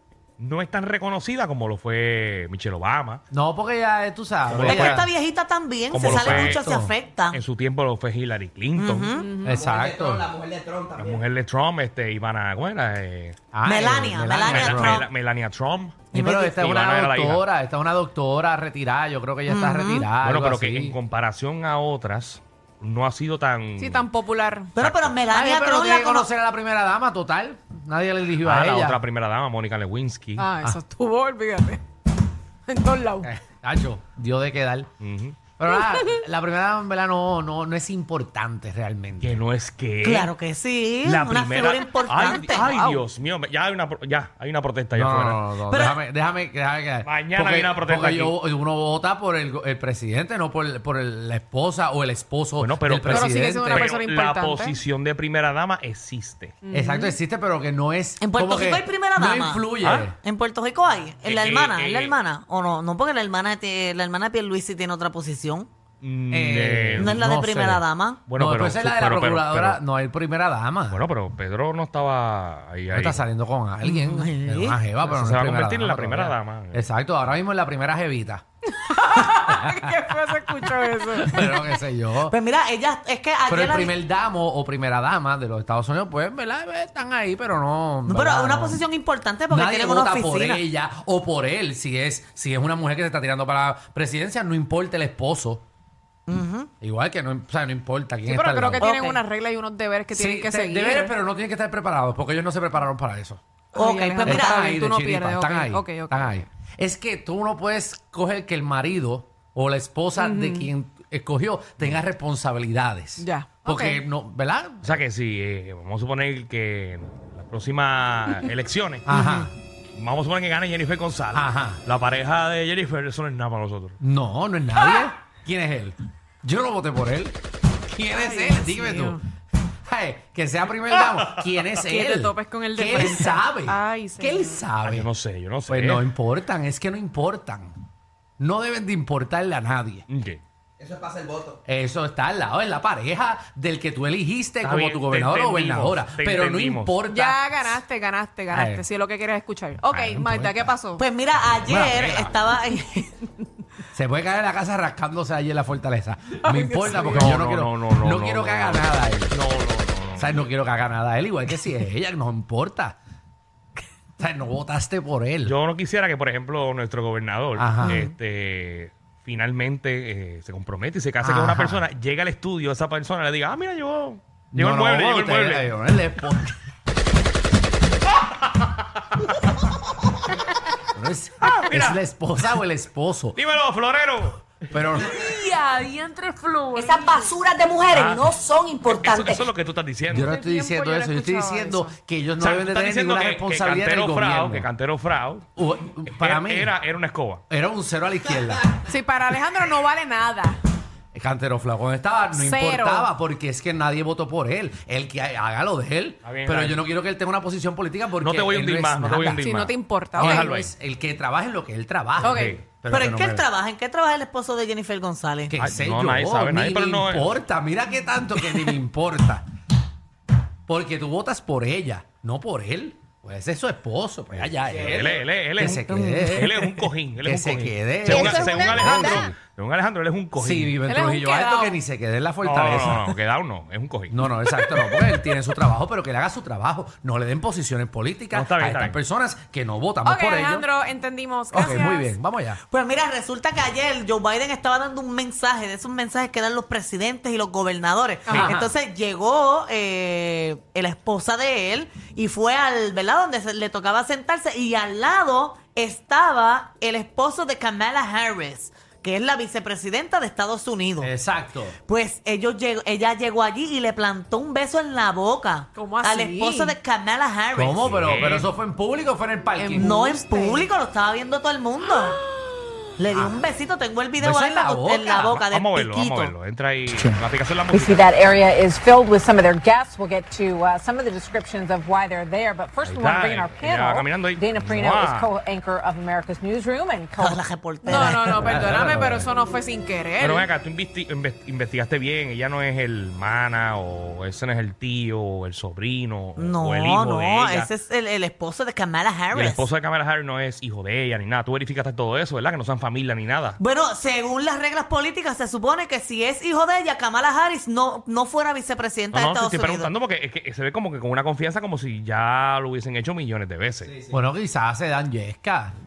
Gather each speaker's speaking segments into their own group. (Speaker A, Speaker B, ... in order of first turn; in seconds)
Speaker A: 0.4-3.2, 4.5-5.1, 5.9-6.7, 7.3-9.1, 11.0-13.4, 14.4-17.4, 20.2-24.1, 24.8-25.2, 28.4-30.5, 35.0-35.4, 39.2-40.3, 41.0-45.5, 47.0-48.3, 52.6-56.6, 59.8-60.1, 61.2-62.1, 66.0-67.2, 68.3-69.8, 70.9-73.2, 75.0-76.9, 114.8-119.1, 120.0-124.0, 131.3-131.7, 134.8-136.1, 140.1-140.4, 144.6-147.0, 156.9-160.4, 165.4-175.7, 178.4-179.3, 181.4-182.0, 183.3-184.4, 187.9-190.3, 192.4-195.5, 196.1-197.4, 206.2-206.8, 208.2-210.7, 212.2-212.6, 215.6-217.4, 224.3-230.8, 232.4-234.2, 238.3-239.0, 267.9-268.5, 275.5-278.3, 282.8-285.3, 290.2-297.7, 299.3-303.6, 309.1-314.0
Speaker B: 3.3-5.1, 6.0-7.0, 9.4-10.3, 13.5-15.1, 16.1-21.0, 25.3-29.0, 33.2-34.9, 35.6-39.4, 44.9-53.9, 56.7-60.2, 66.3-71.0, 72.9-78.4, 79.5-79.9, 81.1-82.3, 83.5-88.8, 89.5-95.6, 96.8-98.8, 100.1-103.4, 104.2-115.0, 119.0-119.5, 121.3-121.8, 124.0-127.4, 127.9-129.2, 129.8-135.1, 135.7-137.7, 138.4-140.1, 141.7-147.7, 148.5-148.8, 149.9-150.7, 151.6-152.3, 153.9-159.3, 160.2-163.0, 164.2-165.6, 167.6-168.1, 171.2-171.8, 174.5-176.5, 180.9-183.4, 184.7-185.2, 190.1-194.7, 195.6-196.7, 197.5-198.8, 201.1-209.5, 210.2-213.4, 215.5-219.4, 220.7-229.3, 230.4-233.2, 234.1-240.7, 241.5-242.6, 248.3-248.6, 261.0-261.8, 267.5-269.9, 273.1-273.4, 274.2-275.4, 288.4-289.3, 314.1-315.7
Speaker C: 4.6-7.4, 8.8-9.3, 13.6-15.1, 16.1-16.4, 19.5-20.1, 24.8-26.3, 40.0-42.7, 45.7-46.0, 58.2-59.7, 60.2-65.7, 67.0-68.2, 73.8-74.8, 82.2-84.0, 88.0-90.6, 96.3-96.7, 98.8-99.2, 103.8-104.6, 119.1-119.5, 151.0-153.1, 212.9-215.5, 242.7-261.1, 261.9-267.9, 269.8-272.2, 273.0-276.3, 287.2-288.4, 296.4-299.7, 303.6-309.9
Speaker D: 9.2-9.5, 23.8-24.7, 30.4-31.8, 32.7-33.3, 42.3-43.0, 53.1-54.8, 56.6-56.9, 78.7-81.4, 98.3-101.1, 103.7-106.3, 110.2-110.7, 113.2-114.0, 128.2-129.2, 131.9-134.6, 147.1-151.0, 156.4-157.2, 185.1-187.3, 190.2-191.9, 198.8-200.6, 202.3-203.1, 209.4-210.5, 212.3-212.5, 230.9-231.8, 240.1-242.1, 248.3-248.6, 265.8-266.7, 269.6-270.6, 272.3-272.7, 287.9-290.5
Speaker E: 9.6-11.1, 140.8-141.5
Speaker F: 186.8-189.4, 228.1-229.2
Speaker G: 277.7-287.4